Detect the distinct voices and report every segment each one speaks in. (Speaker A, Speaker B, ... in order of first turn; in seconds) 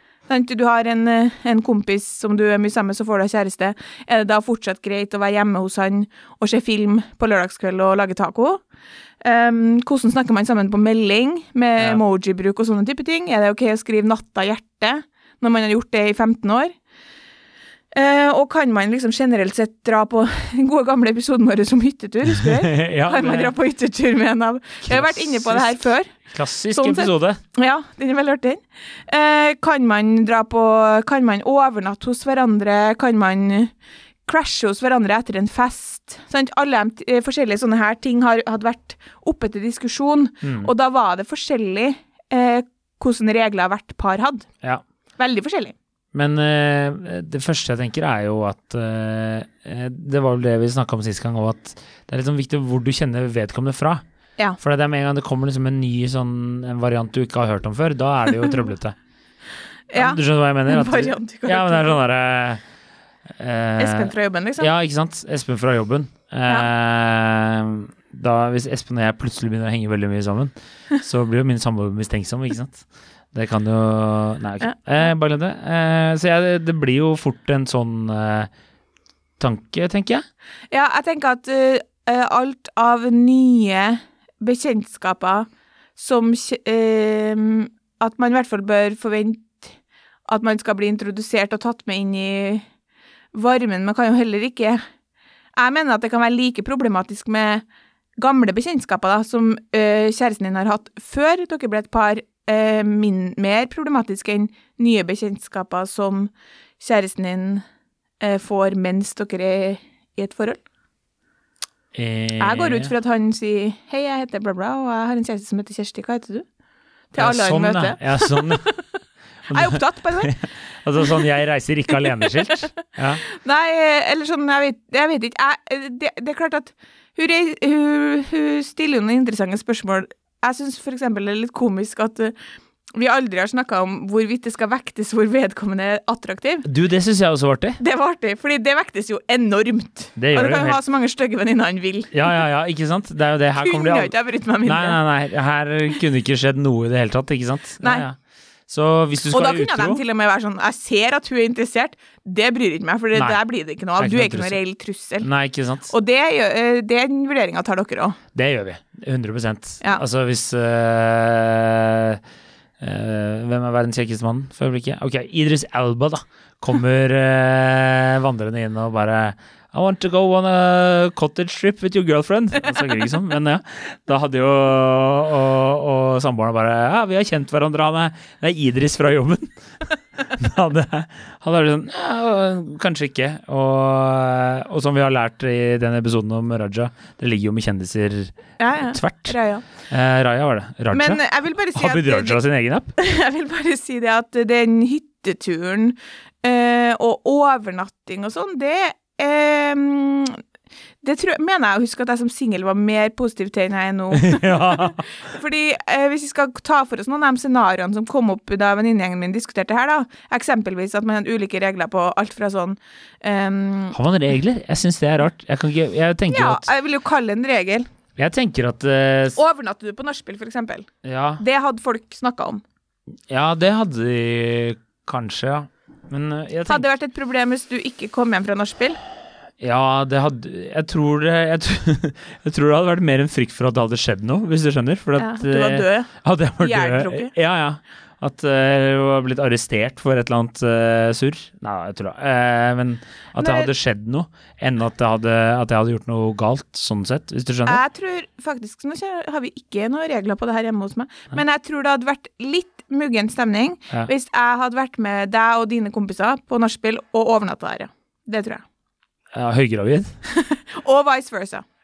Speaker A: 0.3-8.6, 9.2-16.7, 17.9-26.1, 26.7-33.7, 34.3-44.5, 45.2-45.7, 59.9-62.0, 63.8-64.7, 80.7-89.7, 90.3-92.7, 93.3-94.8, 95.5-97.6, 98.2-107.6, 108.2-110.6, 112.4-116.5, 117.1-118.9, 119.5-120.3, 123.3-132.3, 132.9-136.7, 137.8-142.4, 143.6-145.0, 149.3-155.3, 155.9-158.2, 188.6-189.6, 190.9-192.4, 193.0-200.4, 201.0-214.0, 216.3-217.9, 219.3-222.6, 226.7-229.0, 235.2-237.3, 243.4-243.7, 247.7-258.6, 260.3-261.6
Speaker B: 22.3-23.5, 24.8-27.4, 40.4-40.7, 46.1-54.0, 54.6-59.0, 59.9-62.6, 63.3-78.5, 79.4-80.2, 111.9-112.9, 117.2-118.7, 119.5-123.2, 136.7-137.8, 140.2-140.8, 142.1-144.1, 144.7-148.2, 148.7-150.0, 153.2-153.4, 154.0-154.6, 155.2-155.9, 158.3-162.2, 162.8-179.5, 180.3-189.3, 189.9-191.2, 191.7-192.9, 204.1-205.0, 213.9-216.7, 218.2-219.4, 221.0-221.4, 223.3-226.9, 229.6-247.8, 259.3-260.1